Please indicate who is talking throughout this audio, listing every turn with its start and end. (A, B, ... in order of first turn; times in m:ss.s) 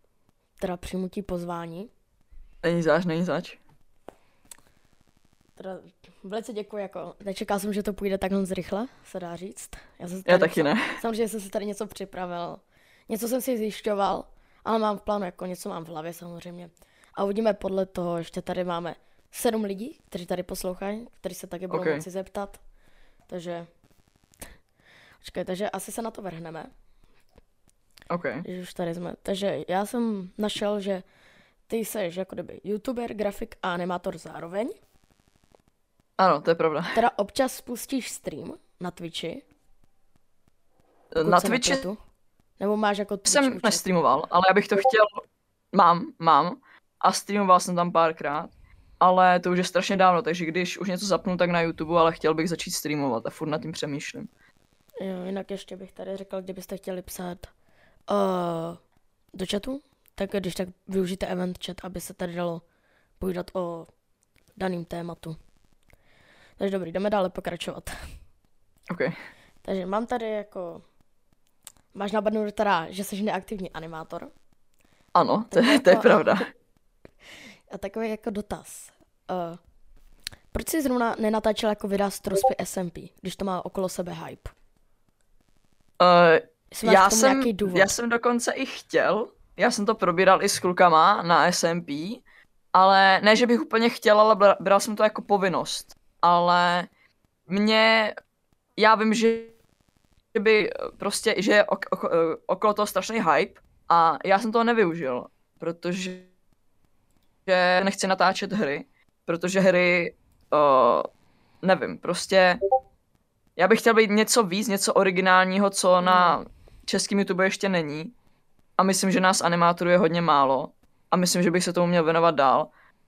0:00.6-0:01.9 A
0:02.6-0:03.6 B
0:05.6-0:22.6 A
0:10.3-0:10.9 B
0:21.7-0:22.0 B
0:23.3-0:23.7 A
0:25.2-0:26.7 A
0:28.1-0:28.4 B
0:28.4-0:31.0 A
0:31.7-0:34.8 A
0:36.2-0:36.9 B
0:36.9-0:39.4 A
0:41.1-0:41.9 B
0:41.2-0:42.0 A
0:42.6-0:43.9 A
0:43.2-0:54.3 B
0:55.0-0:57.5 A
0:58.1-0:58.8 A
0:59.4-1:02.6 A
1:03.2-1:03.9 A
1:04.6-1:05.4 A
1:06.6-1:08.0 A
1:08.9-1:09.2 B
1:09.6-1:10.8 A
1:11.9-1:14.3 A
1:15.2-1:16.5 B
1:15.5-1:16.4 A
1:17.7-1:19.6 A
1:20.5-1:24.5 A
1:26.0-1:32.2 B
1:26.7-1:27.9 A
1:32.7-1:36.9 B
1:37.5-1:38.2 B
1:38.8-1:39.6 B
1:40.3-1:46.3 B
1:47.5-1:51.1 B
1:51.6-1:52.6 B
1:53.6-1:58.1 B
1:56.0-1:56.4 A
1:58.8-2:02.7 B